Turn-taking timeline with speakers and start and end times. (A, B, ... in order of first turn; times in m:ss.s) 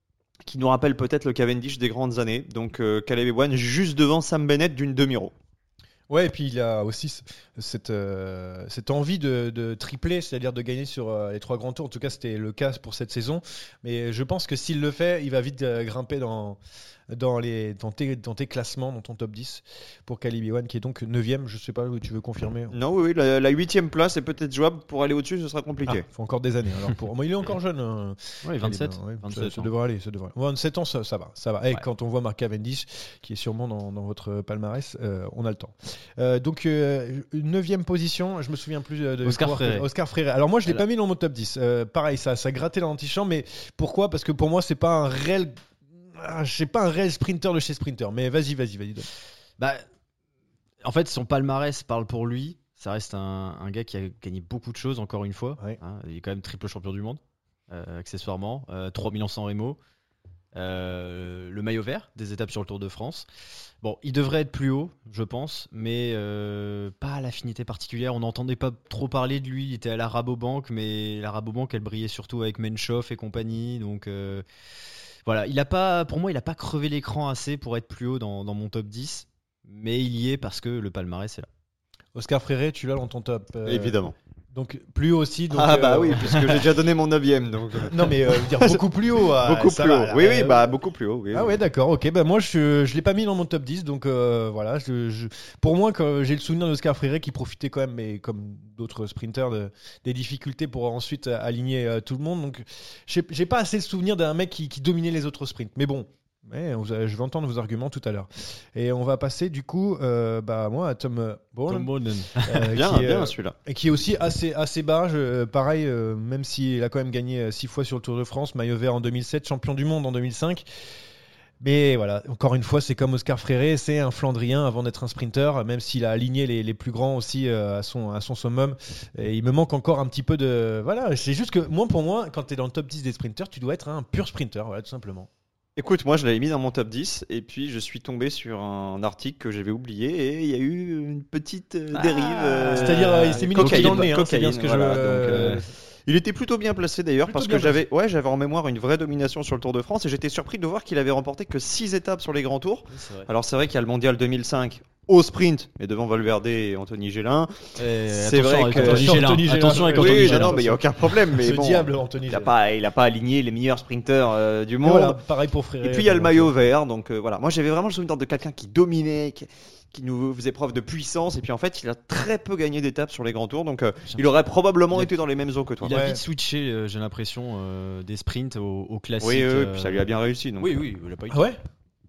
0:00.4-0:05.3 A
0:06.1-0:16.6 B
0:17.1-0:22.8 B
0:22.7-0:26.0 A
0:25.9-0:45.6 B
0:28.4-0:29.7 C
0:39.2-0:39.9 C
0:46.1-0:49.1 B
0:49.6-0:49.8 C
0:50.8-0:59.8 C
1:00.5-1:03.2 C
1:03.8-1:14.4 C
1:15.2-1:21.5 C
1:22.1-1:24.0 B
1:23.6-1:24.1 A
1:24.5-1:26.7 B
1:25.5-1:31.6 A
1:27.8-1:30.7 B
1:31.3-1:51.9 B
1:51.7-1:52.7 C
1:52.4-2:00.6 B
1:52.7-1:53.5 A
2:01.6-2:15.3 B
2:15.8-2:25.5 A
2:21.9-2:24.1 C
2:22.7-2:25.6 B
2:25.1-2:25.6 C
2:26.1-2:37.5 A
2:27.2-2:27.8 B
2:32.9-2:33.3 C
2:37.8-2:40.6 C
2:38.1-2:45.2 A
2:38.7-2:42.5 B
2:44.8-2:46.5 B
2:45.8-2:56.0 A
2:55.8-3:00.0 C
2:55.9-2:56.2 B
2:59.2-3:00.7 A
3:00.6-3:01.5 C
3:01.3-3:01.6 B